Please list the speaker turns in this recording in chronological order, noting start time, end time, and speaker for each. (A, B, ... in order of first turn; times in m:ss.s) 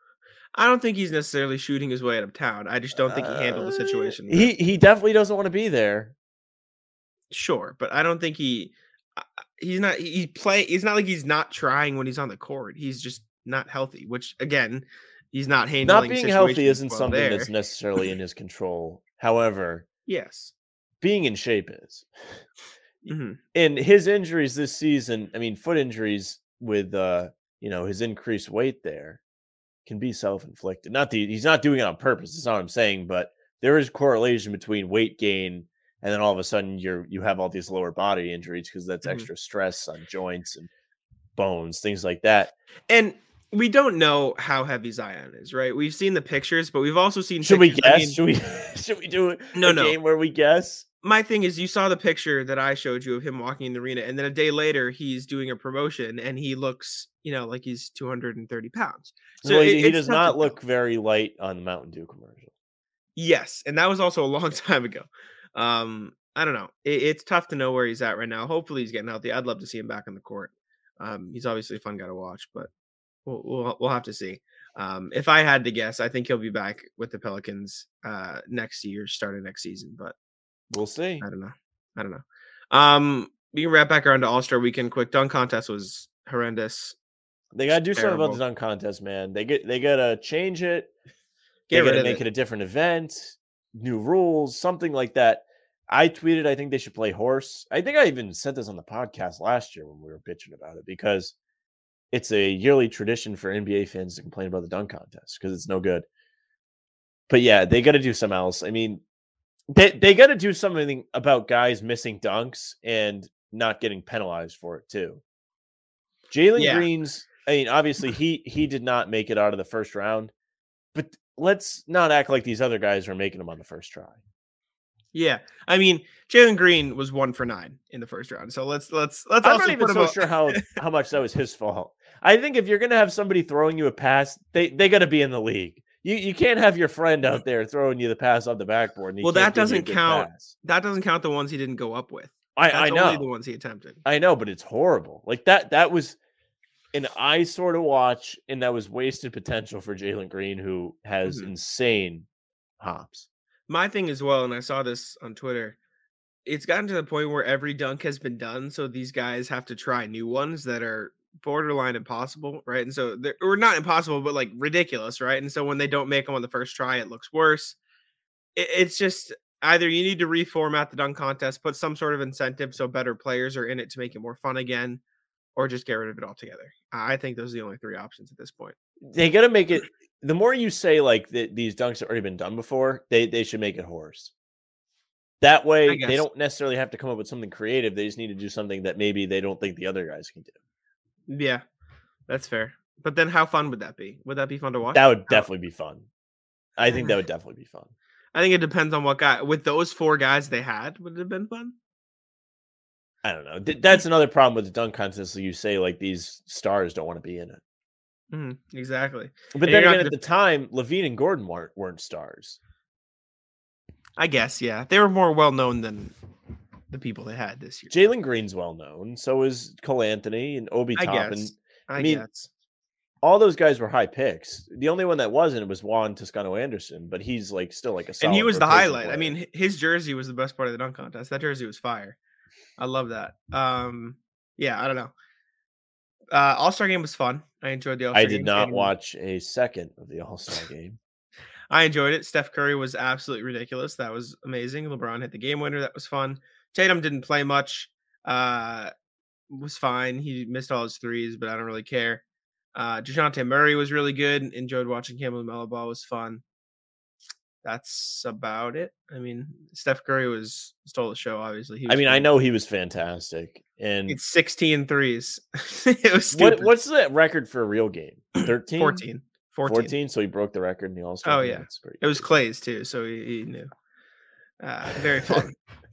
0:00.5-0:04.5 A
0:03.0-0:06.1 B
0:07.3-0:17.5 A
0:15.8-0:19.8 B
0:20.1-0:20.5 A
0:21.0-0:22.4 B
0:23.1-0:23.4 A
0:23.5-0:29.2 B
0:29.8-0:40.7 B
0:39.0-0:39.3 A
0:41.4-0:42.5 B
0:42.9-0:48.2 A
0:47.4-0:50.8 B
0:49.5-0:50.0 A
0:51.0-1:00.6 A
0:59.4-1:02.5 B
1:03.2-1:12.7 A
1:13.2-1:20.1 A
1:20.7-1:21.2 B
1:21.2-1:27.0 A
1:27.5-1:30.9 B
1:28.0-1:28.4 A
1:31.7-1:32.2 A
1:31.7-1:41.3 B
1:42.1-1:46.0 B
1:47.3-1:49.0 B
1:49.7-1:55.2 B
1:56.3-2:00.3 B
1:56.6-1:56.9 A
2:00.9-2:04.2 B
2:05.1-2:10.7 A
2:09.4-2:20.5 B
2:19.2-2:24.0 A
2:22.6-2:23.2 B
2:24.0-2:26.2 B
2:26.9-2:32.2 B
2:32.8-2:33.3 B
2:33.7-2:35.8 A
2:36.4-2:47.8 A
2:48.5-2:55.0 A
2:55.6-2:58.8 A
2:59.0-3:04.3 B
3:05.4-3:10.5 B
3:05.9-3:06.2 A
3:11.3-3:11.6 A
3:12.3-3:15.5 A
3:14.9-3:16.0 B
3:16.8-3:17.9 B
3:16.9-3:17.2 A
3:18.3-3:21.7 A
3:23.2-3:27.6 B
3:28.3-3:30.2 A
3:29.5-3:32.6 B
3:34.2-3:36.1 A
3:36.9-3:37.9 A
3:37.9-3:42.2 B
3:41.0-3:42.5 A
3:43.2-3:49.3 B
3:48.2-3:52.2 A
3:52.8-3:55.1 A
3:56.3-3:58.9 A
3:58.1-4:01.0 B
4:01.7-4:08.9 A
4:09.5-4:12.2 A
4:12.7-4:16.4 A
4:17.6-4:22.3 A
4:21.9-4:24.2 B
4:24.1-4:26.7 A
4:26.3-4:29.0 B
4:28.4-4:29.9 A
4:29.6-4:32.2 B
4:31.2-4:33.7 A
4:34.6-4:35.6 A